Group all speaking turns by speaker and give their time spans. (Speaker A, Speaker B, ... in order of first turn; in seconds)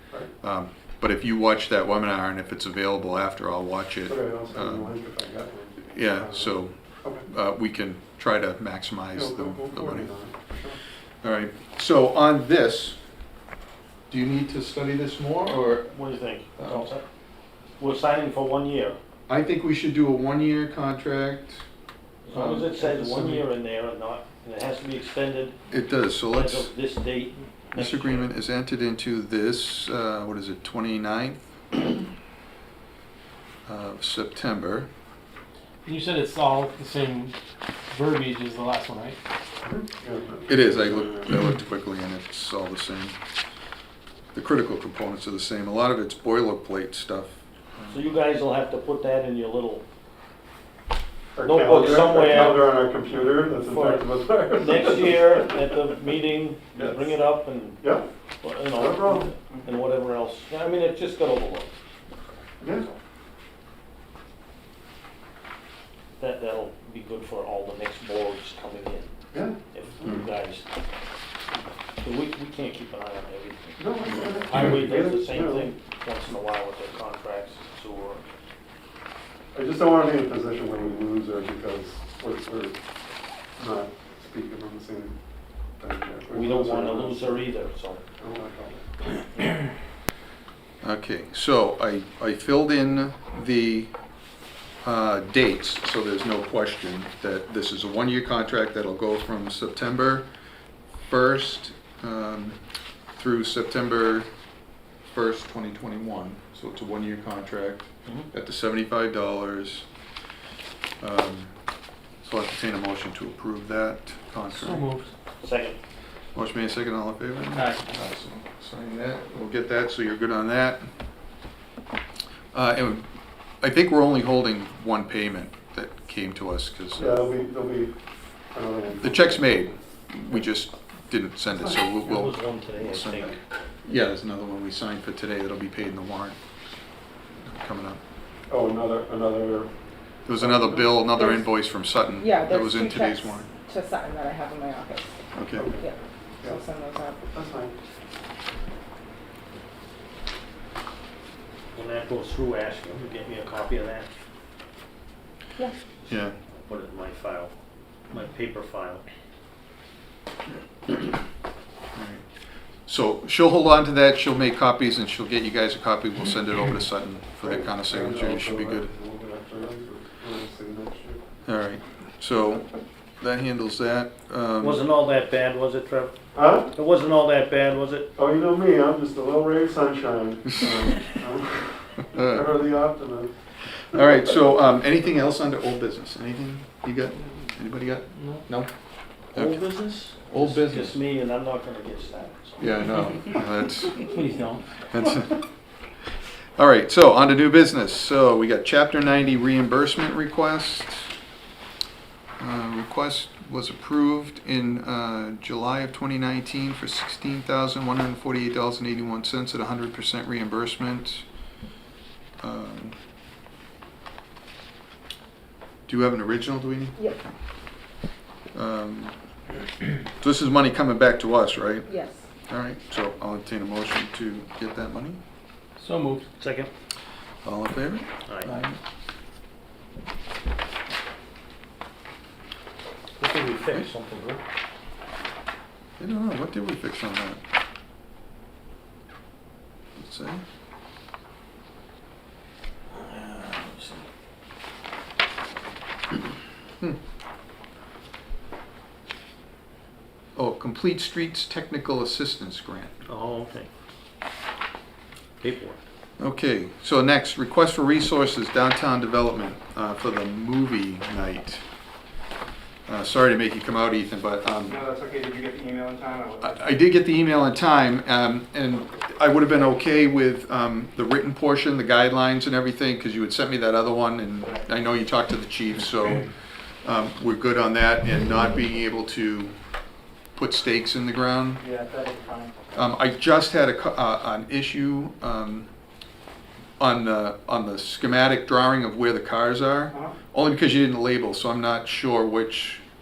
Speaker A: 0.4-4.9, 5.9-6.8, 7.3-10.1, 11.2-13.0, 14.1-15.9, 16.6-16.9, 19.3-21.6, 22.3-23.4, 25.7-26.7, 27.8-31.5, 33.7-34.9, 40.5-43.2, 44.3-48.0, 74.5-74.8, 90.8-93.9, 94.8-100.3, 101.1-102.6, 103.1-104.3, 105.1-109.9, 111.0-111.6, 112.2-114.8, 116.3-120.9, 122.5-123.1, 123.6-127.3, 129.0-136.4, 137.4-138.0, 140.3-143.5, 145.3-145.7, 156.1-156.3, 161.9-162.2, 162.9-168.9, 171.5-172.7, 173.2-174.8, 182.1-182.5, 183.9-188.7, 189.3-191.0, 192.6-194.1, 194.9-195.4, 196.6-201.1, 202.4-211.2, 212.4-213.0, 215.9-217.3, 218.5-219.2, 220.2-221.9, 222.5-225.2, 227.4-228.8, 236.0-237.4, 240.0-240.4, 250.4-253.0, 256.2-261.6, 262.9-264.8, 266.4-276.3, 276.8-279.6, 280.4-281.6, 282.7-285.7, 286.8-292.8
Speaker B: 4.1-7.3, 9.1-10.8, 39.6-41.3, 51.4-55.7, 56.8-57.1, 57.8-58.1, 58.7-59.3, 62.6-62.9, 69.3-70.3, 73.8-75.7, 79.5-82.8, 83.6-85.2, 85.8-87.4, 88.2-88.8, 127.0-127.9, 128.5-129.7, 138.5-139.7, 140.3-141.1, 145.6-145.9, 147.3-147.7, 167.4-171.2, 176.3-176.7, 178.2-183.3
Speaker C: 15.9-17.1, 17.8-19.0, 22.2-25.6, 26.3-28.3, 47.9-49.8, 51.4-52.7, 53.6-57.9, 58.4-61.7, 66.2-69.1, 69.7-70.7, 72.0-78.3, 86.3-88.0, 115.4-115.8, 117.5-117.8, 132.0-133.4, 151.7-154.1, 156.6-157.5, 158.1-159.1, 174.6-176.2, 176.7-178.1, 189.3-192.6, 194.1-194.6, 226.4-226.7, 228.3-228.6, 233.2-234.4, 242.9-244.1, 253.1-253.7, 255.4-255.8
Speaker D: 35.9-37.4, 37.9-39.2, 114.5-115.1, 188.2-188.4, 225.8-226.3
Speaker E: 141.1-141.5, 142.2-145.2, 145.8-147.2, 221.9-222.2
Speaker F: 264.7-266.5, 281.6-282.5